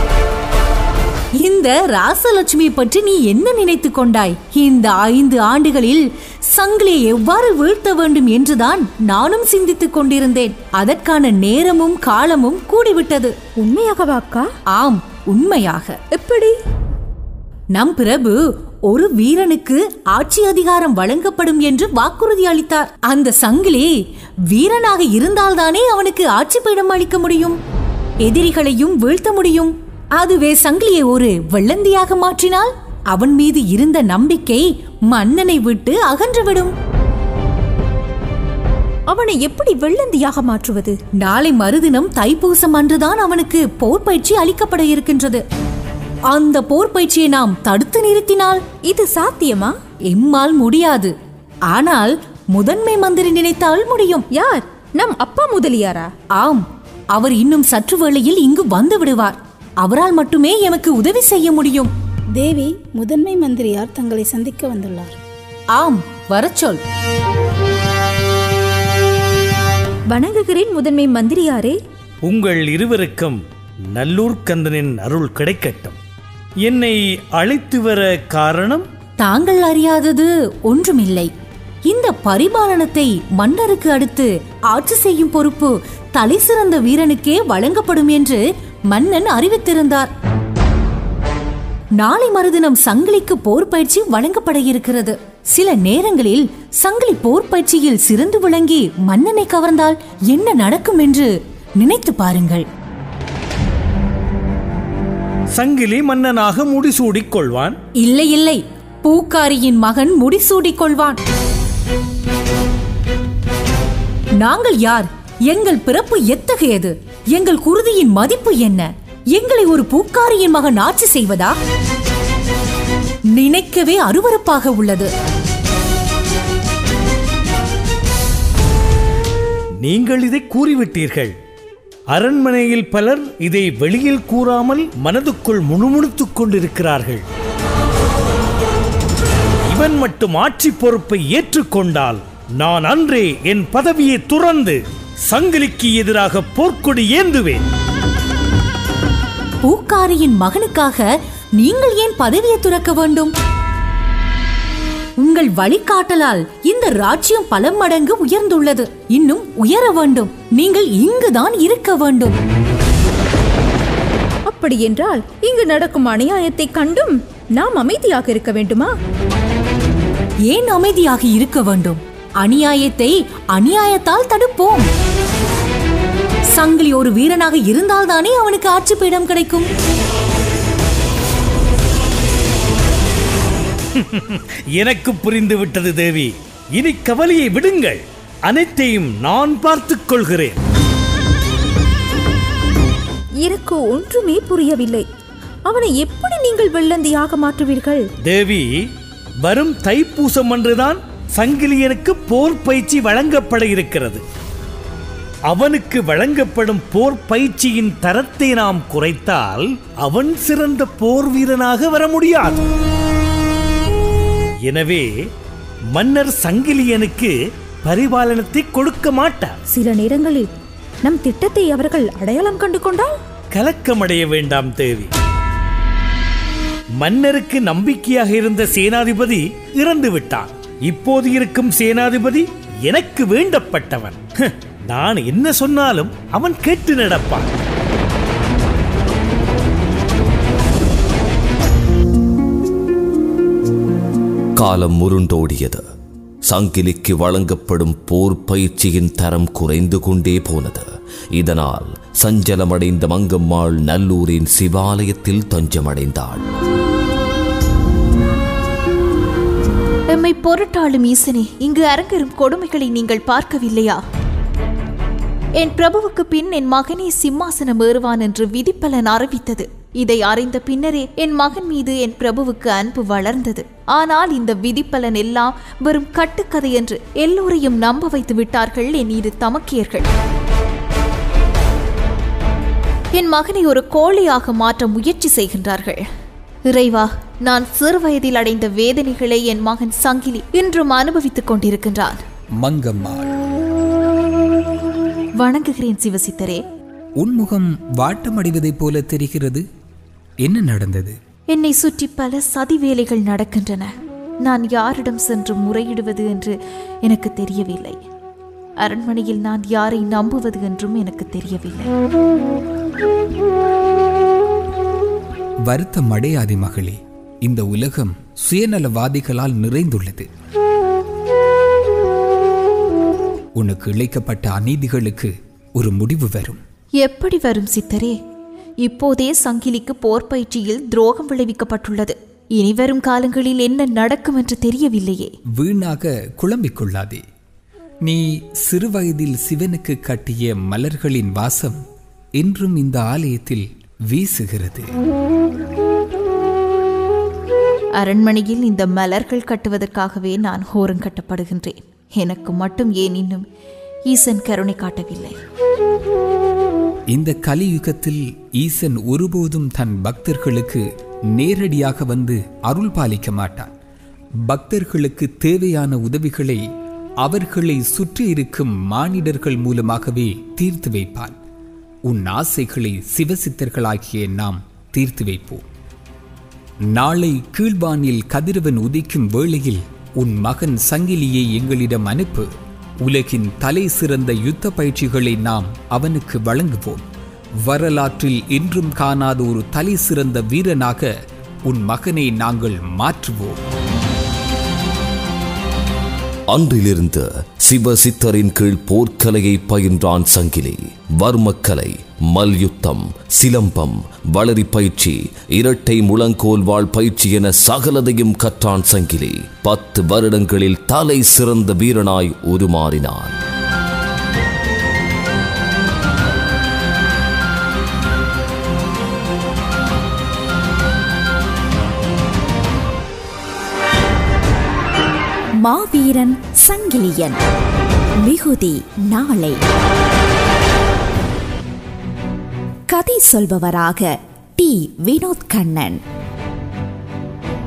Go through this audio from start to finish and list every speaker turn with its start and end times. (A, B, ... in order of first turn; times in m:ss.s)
0:01.4-0:13.3 A
0:13.6-0:14.5 B
0:14.7-0:16.0 A
0:16.1-0:16.5 B
0:17.7-0:24.0 A
0:24.5-0:27.6 A
0:28.2-0:36.7 A
0:39.1-0:41.0 B
0:41.2-0:45.4 A
0:46.3-0:48.6 A
0:48.8-0:49.7 B
0:50.1-0:51.1 A
0:51.7-0:54.2 A
0:54.3-0:56.1 B
0:56.4-1:01.9 A
1:02.4-1:05.1 C
1:05.7-1:06.8 A
1:10.1-1:11.8 B
1:12.2-1:13.4 D
1:13.9-1:16.0 D
1:16.6-1:18.8 D
1:19.2-1:21.3 A
1:21.9-1:30.1 A
1:32.0-1:42.6 A
1:45.5-1:47.8 D
1:48.0-1:51.2 A
1:54.4-2:01.5 A
2:03.3-2:05.1 A
2:09.8-2:11.3 D
2:12.1-2:17.2 D
2:19.7-2:27.6 D
2:29.6-2:33.3 A
2:35.2-2:42.3 A
2:44.5-2:48.9 B
2:50.5-2:54.8 A
2:56.5-2:59.7 A
3:04.0-3:10.6 D
3:13.4-3:15.0 B
3:15.6-3:18.0 B
3:18.2-3:18.9 D
3:19.4-3:24.2 D
3:25.5-3:32.6 D
3:34.7-3:35.1 D
3:35.9-3:37.3 D
3:37.8-3:39.5 D
3:39.7-3:40.5 B
3:41.0-3:43.1 B
3:43.5-3:45.1 D
3:47.0-3:57.5 D
4:04.6-4:05.8 E
4:06.4-4:10.8 E
4:11.4-4:16.4 E
4:20.1-4:24.0 F
4:25.6-4:40.1 F
4:43.1-4:46.0 F
4:46.7-4:52.2 F
4:52.6-4:53.3 G
4:55.4-4:56.6 F
4:57.2-4:59.6 G
5:00.4-5:01.2 G
5:01.5-5:03.9 F
5:04.4-5:08.0 F
5:08.8-5:11.9 F
5:15.7-5:20.3 G
5:23.6-5:26.6 G
5:27.0-5:28.2 F
5:28.8-5:35.3 F
5:35.6-5:37.2 G
5:38.0-5:41.8 G
5:42.4-5:44.9 G
5:48.0-5:53.4 F
5:54.1-5:55.3 F
5:57.1-6:00.8 G
6:01.4-6:03.7 G
6:04.5-6:06.6 G
6:07.2-6:11.4 G
6:12.1-6:15.6 G
6:16.9-6:22.5 G
6:23.0-6:27.0 G
6:27.7-6:31.1 G
6:31.7-6:33.6 G
6:36.5-6:53.3 E
7:05.6-7:07.4 H
7:08.2-7:09.6 H
7:12.9-7:16.0 H